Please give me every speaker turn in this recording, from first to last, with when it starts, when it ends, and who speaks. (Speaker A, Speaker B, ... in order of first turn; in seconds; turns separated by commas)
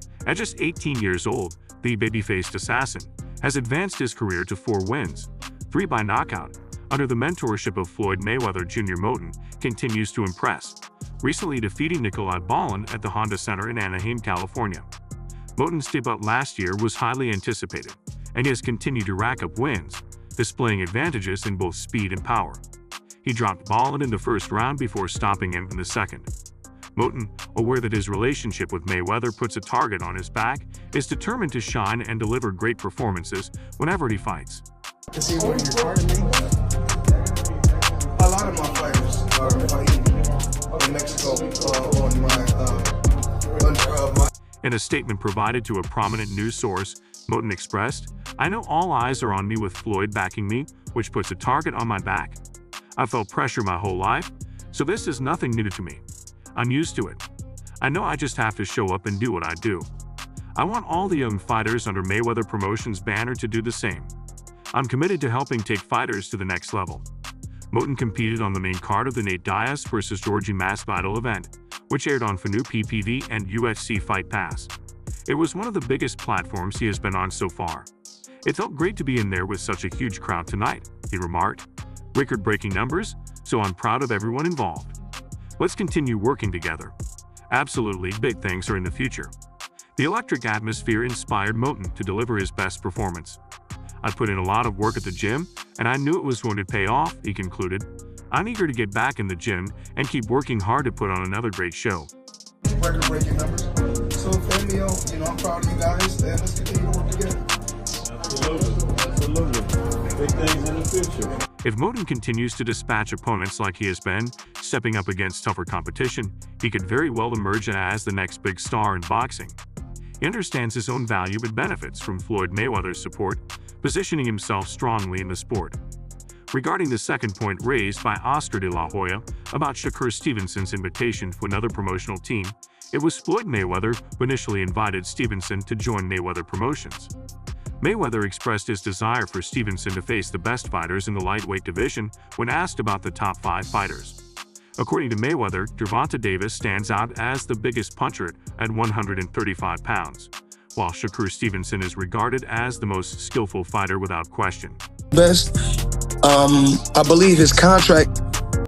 Speaker A: 0.2-14.9, Speaker A: 15.6-22.6, Speaker A: 23.2-26.3, Speaker A: 26.9-34.6, Speaker B: 35.1-36.4, Speaker B: 38.1-43.0, Speaker B: 43.5-44.3, Speaker A: 44.6-52.4, Speaker A: 53.0-56.0, Speaker A: 56.5-57.2, Speaker A: 57.8-59.9, Speaker A: 60.6-64.1, Speaker A: 64.7-67.1, Speaker A: 67.7-74.7, Speaker A: 75.3-77.9, Speaker A: 78.4-85.0, Speaker A: 85.6-86.9, Speaker A: 87.5-89.3, Speaker A: 90.0-93.4, Speaker A: 94.0-102.1, Speaker B: 102.7-107.5, Speaker C: 108.3-109.4, Speaker C: 110.2-111.2, Speaker A: 111.6-119.5, Speaker A: 120.2-125.8, Speaker A: 126.5-137.1, Speaker A: 137.8-144.2, Speaker A: 144.8-154.8, Speaker B: 155.1-155.5, Speaker B: 156.2-158.1